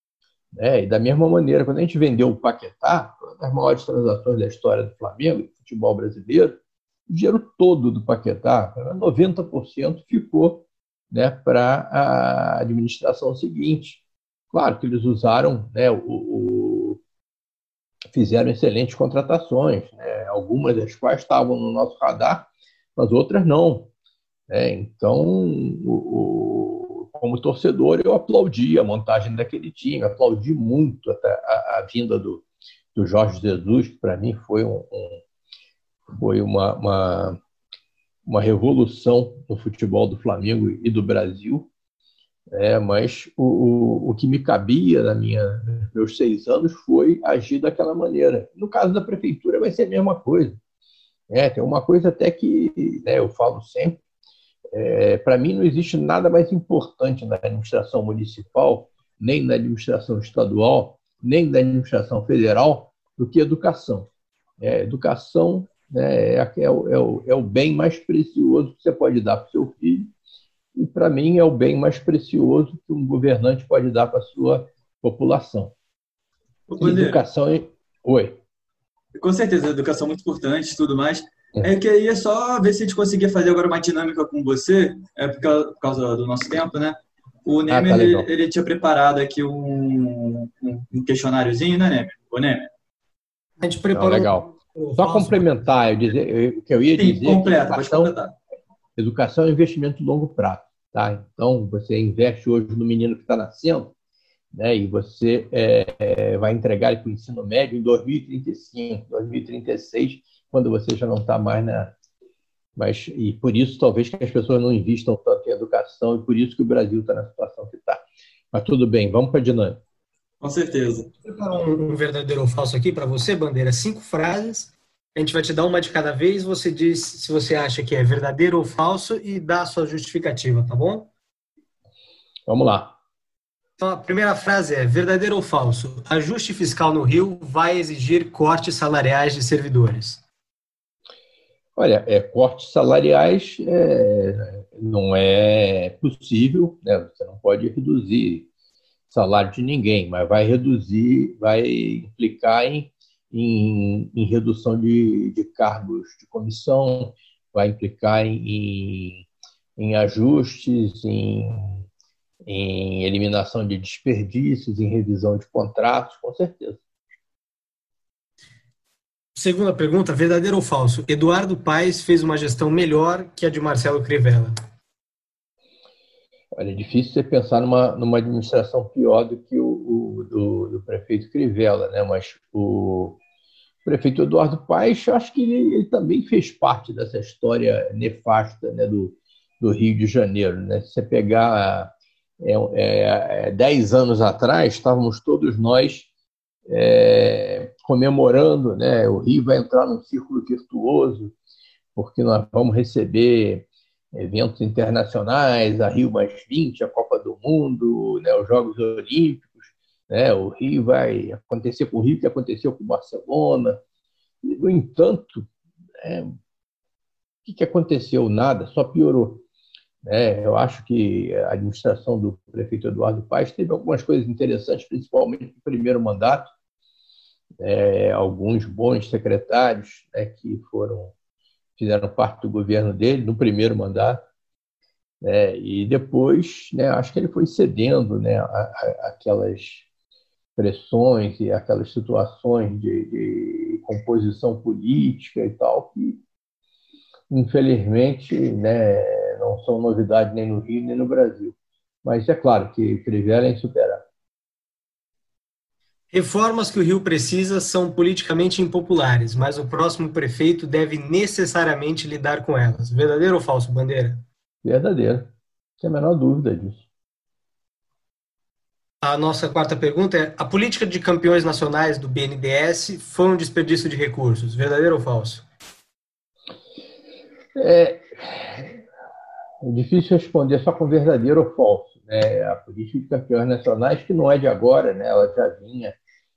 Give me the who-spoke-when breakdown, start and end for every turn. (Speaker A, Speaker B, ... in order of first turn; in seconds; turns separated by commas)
Speaker A: 0.6-6.6, Speaker A: 7.1-17.0, Speaker A: 18.1-23.9, Speaker A: 24.5-32.4, Speaker A: 33.0-35.2, Speaker A: 36.1-37.4, Speaker A: 38.3-41.7, Speaker A: 42.5-50.6, Speaker A: 51.3-54.0, Speaker A: 54.7-64.1, Speaker A: 64.6-70.1, Speaker A: 70.8-75.7, Speaker B: 76.7-77.2, Speaker A: 76.8-78.4, Speaker B: 79.2-92.7, Speaker A: 87.7-88.3, Speaker C: 93.6-95.6, Speaker A: 93.9-98.1, Speaker B: 97.0-98.3, Speaker A: 99.0-103.9, Speaker A: 104.5-112.0, Speaker A: 112.8-119.8, Speaker B: 120.4-121.1, Speaker C: 121.2-131.1, Speaker A: 132.5-133.0, Speaker C: 133.8-140.2, Speaker A: 141.8-148.5, Speaker A: 149.1-159.3, Speaker A: 159.8-161.8, Speaker A: 162.4-166.8, Speaker C: 169.4-174.6, Speaker A: 176.6-183.2, Speaker A: 183.8-196.1, Speaker A: 196.7-201.3, Speaker A: 202.0-213.8, Speaker A: 214.4-215.5, Speaker A: 216.0-216.3, Speaker A: 217.4-219.4, Speaker A: 220.0-226.5, Speaker A: 227.6-231.1, Speaker A: 231.8-234.2, Speaker A: 235.2-239.9, Speaker A: 240.6-246.2, Speaker A: 247.3-254.0, Speaker C: 256.1-264.2, Speaker A: 264.6-266.9, Speaker C: 269.0-275.4, Speaker A: 277.6-278.8, Speaker A: 279.6-286.0